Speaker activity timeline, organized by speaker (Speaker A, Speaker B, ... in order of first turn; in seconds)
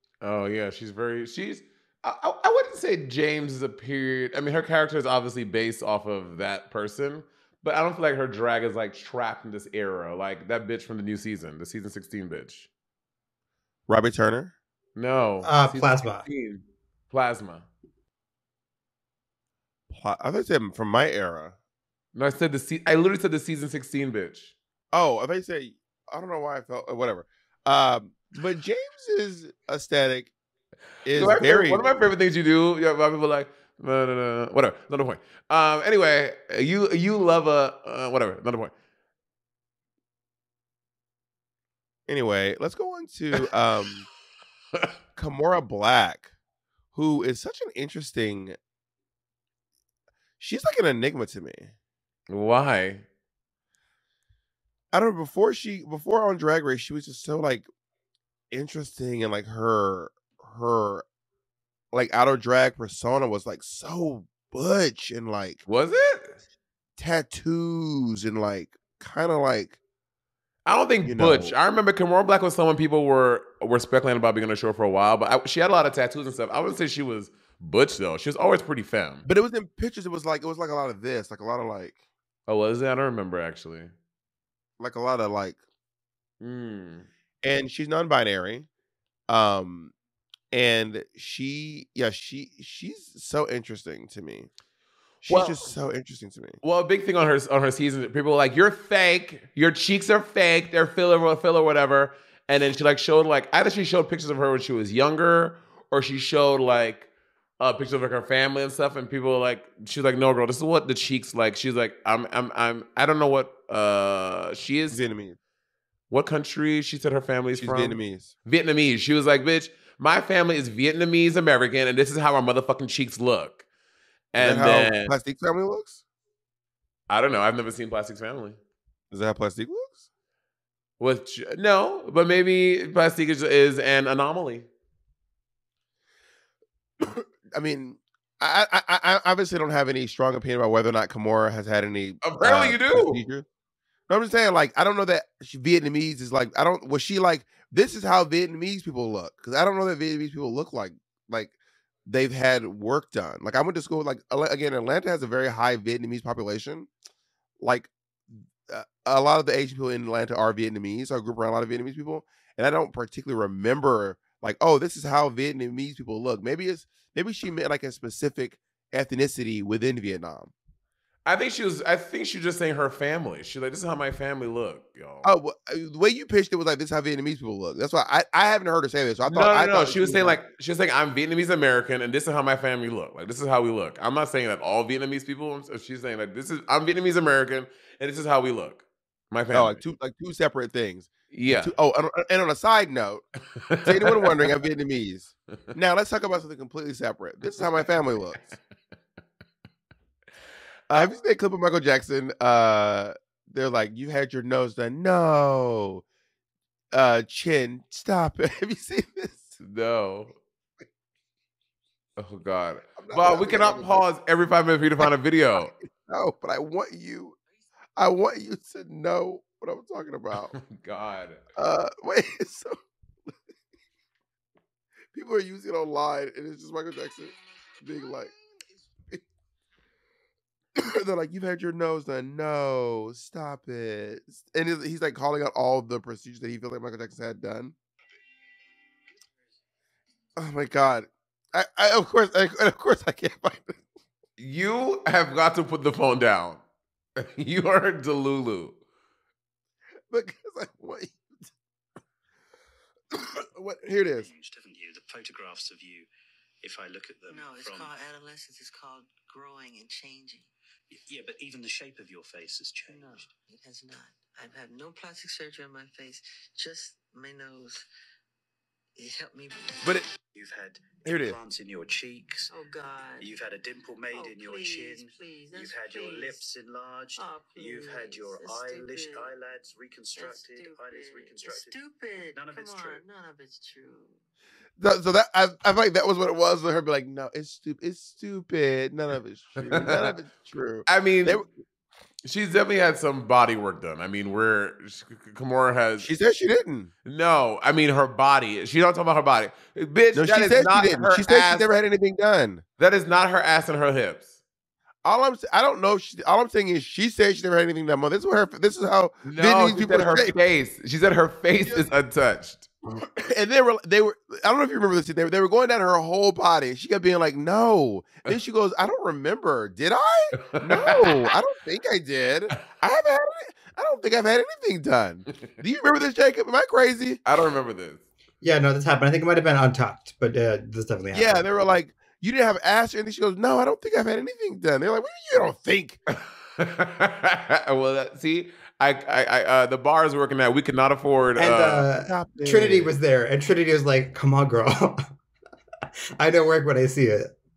Speaker A: 0.2-12.7, 14.9-17.6, 22.1-24.5, 31.1-38.7, 52.3-53.0, 65.7-66.4, 70.7-79.2, 82.5-83.9, 86.4-87.1, 95.3-95.7, 96.6-107.1, 107.6-115.0, 116.1-123.6, 124.3-125.1, 127.1-128.6, 131.0-134.7, 142.2-143.2, 171.2-175.3, 179.3-189.8, 191.3-191.7, 193.6-194.3, 209.6-210.3, 212.2-215.7, 220.5-221.4, 244.4-246.6, 247.2-248.8, 289.6-290.0, 290.9-291.4, 292.2-296.1, 297.0-301.7, 302.8-304.3, 309.2-312.7, 320.4-321.3, 327.2-328.1, 336.1-341.9
Speaker B: 13.9-14.5, 19.9-21.5, 24.9-30.3, 31.0-31.9, 42.1-44.1, 45.1-46.3, 46.9-48.5, 50.4-51.7, 54.9-57.7, 58.5-61.0, 61.9-65.6, 67.0-69.8, 71.0-71.5, 79.2-81.9, 84.8-85.6, 87.4-88.7, 89.3-89.9, 90.5-94.5, 95.2-96.6, 114.9-115.4, 117.5-118.3, 124.4-126.0, 129.1-130.0, 137.0-143.4, 144.1-151.5, 152.1-156.9, 157.6-170.5, 175.2-180.4, 189.5-193.2, 193.8-198.5, 200.9-206.0, 206.9-209.6, 213.0-214.0, 216.1-217.4, 218.0-220.6, 221.6-222.8, 225.1-228.3, 230.8-237.7, 240.4-243.8, 250.1-251.2, 253.1-254.3, 271.0-271.4, 284.8-291.4, 296.0-296.9, 300.1-302.6, 305.0-310.3, 311.6-311.9, 313.1-327.2, 331.1-336.0, 342.0-342.9
Speaker C: 15.4-16.2, 328.4-331.4, 341.4-345.0, 346.2-347.3
Speaker D: 254.2-256.1, 256.6-258.0, 260.9-263.3, 270.3-272.5, 273.2-281.8, 282.3-283.0
Speaker E: 257.3-260.5, 262.9-267.8, 268.9-270.0, 272.5-273.3, 274.1-276.4, 277.2-279.3, 280.1-284.2